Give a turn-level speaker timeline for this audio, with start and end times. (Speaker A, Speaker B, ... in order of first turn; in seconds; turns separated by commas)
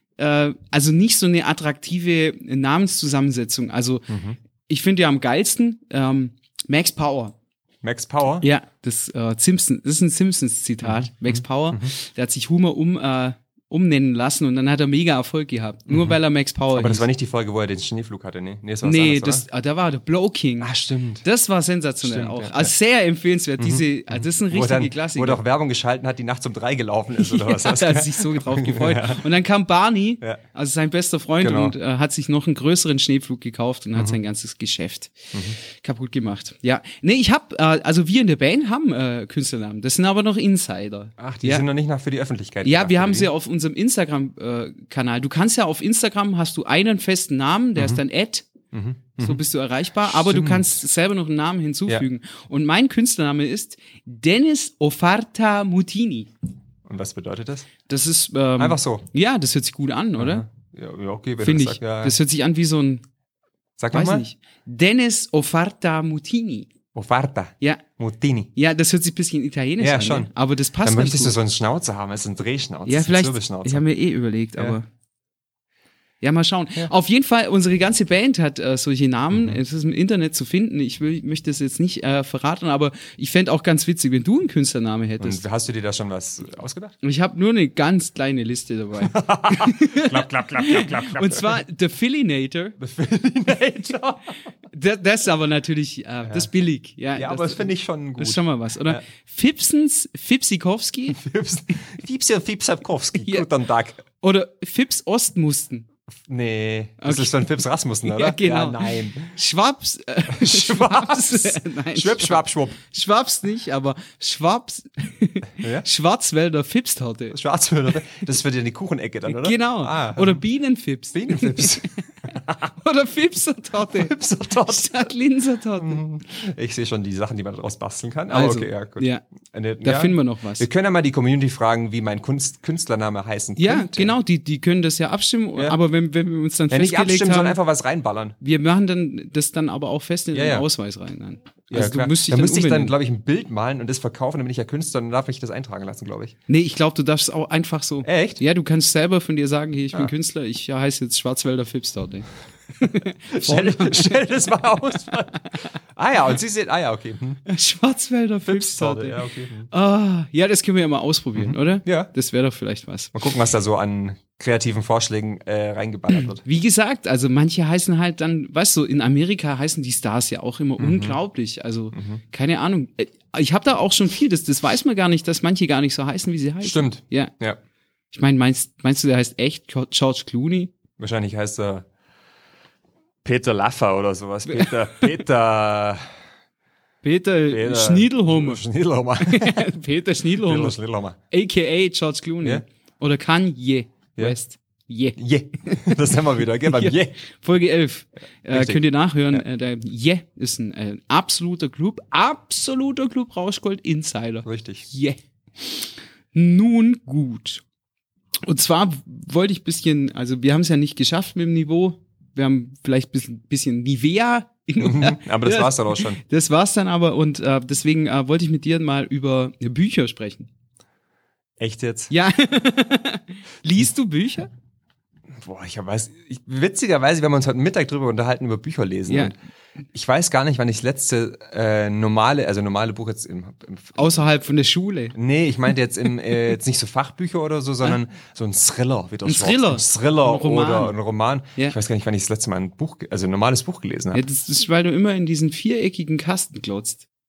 Speaker A: 0.2-4.1, Speaker B: 4.1-4.4, Speaker A: 4.7-7.3, Speaker B: 7.8-8.4, Speaker A: 8.4-17.1, Speaker B: 10.8-11.9, Speaker B: 15.9-16.2, Speaker B: 16.7-19.4, Speaker A: 18.8-20.7, Speaker B: 20.6-21.2, Speaker A: 21.2-25.4, Speaker B: 22.0-22.7, Speaker B: 23.6-29.2, Speaker A: 27.2-41.6, Speaker B: 31.4-31.7, Speaker B: 41.2-43.3, Speaker A: 42.6-48.5, Speaker B: 47.8-48.0, Speaker B: 48.7-49.4, Speaker A: 49.2-56.3, Speaker B: 50.0-50.8, Speaker B: 56.8-57.7, Speaker A: 57.9-60.4, Speaker B: 58.6-59.0, Speaker B: 60.2-62.1, Speaker A: 61.4-63.0, Speaker B: 63.8-64.2, Speaker A: 63.9-66.7, Speaker B: 66.9-68.5, Speaker A: 68.5-71.4, Speaker B: 69.8-70.3, Speaker B: 70.8-73.8, Speaker A: 72.8-74.8, Speaker A: 76.2-85.4, Speaker B: 79.3-79.6, Speaker B: 85.2-86.9, Speaker A: 87.0-92.8, Speaker B: 89.0-91.6, Speaker B: 92.8-94.3, Speaker A: 94.7-101.2, Speaker B: 97.1-99.0, Speaker B: 101.1-104.0, Speaker A: 103.2-103.5, Speaker A: 104.2-105.8, Speaker B: 106.2-109.3, Speaker A: 107.0-117.4, Speaker B: 110.3-112.8, Speaker B: 115.6-115.8, Speaker B: 117.3-120.4, Speaker A: 119.3-121.9, Speaker B: 121.1-122.7, Speaker A: 122.6-126.0, Speaker B: 123.9-125.1, Speaker B: 125.8-134.1, Speaker A: 128.3-129.2, Speaker A: 129.8-130.7, Speaker A: 133.6-137.6, Speaker B: 136.7-138.3, Speaker A: 138.4-142.9, Speaker B: 140.3-140.7, Speaker B: 141.7-146.3, Speaker A: 146.5-154.2, Speaker B: 148.0-148.4, Speaker B: 153.3-157.4, Speaker A: 157.4-163.1, Speaker B: 158.4-159.7, Speaker B: 161.3-162.1, Speaker B: 163.1-166.4, Speaker A: 166.4-177.3, Speaker B: 170.8-171.2, Speaker B: 171.9-172.2, Speaker B: 176.6-177.6, Speaker A: 178.1-180.7, Speaker B: 181.0-181.8, Speaker B: 183.2-186.1, Speaker A: 184.4-185.1, Speaker A: 187.0-188.6, Speaker B: 187.5-189.7, Speaker A: 189.2-190.8, Speaker B: 190.3-191.2, Speaker A: 191.3-196.1, Speaker B: 195.2-197.2, Speaker A: 196.6-207.6, Speaker B: 198.5-199.4, Speaker B: 204.4-204.8, Speaker A: 208.4-220.5, Speaker B: 214.8-216.2, Speaker B: 221.6-222.1, Speaker A: 222.1-224.5, Speaker B: 225.3-229.3, Speaker A: 229.1-229.3, Speaker B: 229.9-234.0, Speaker A: 234.0-235.2, Speaker B: 235.1-244.2, Speaker A: 239.2-240.9, Speaker A: 244.1-247.1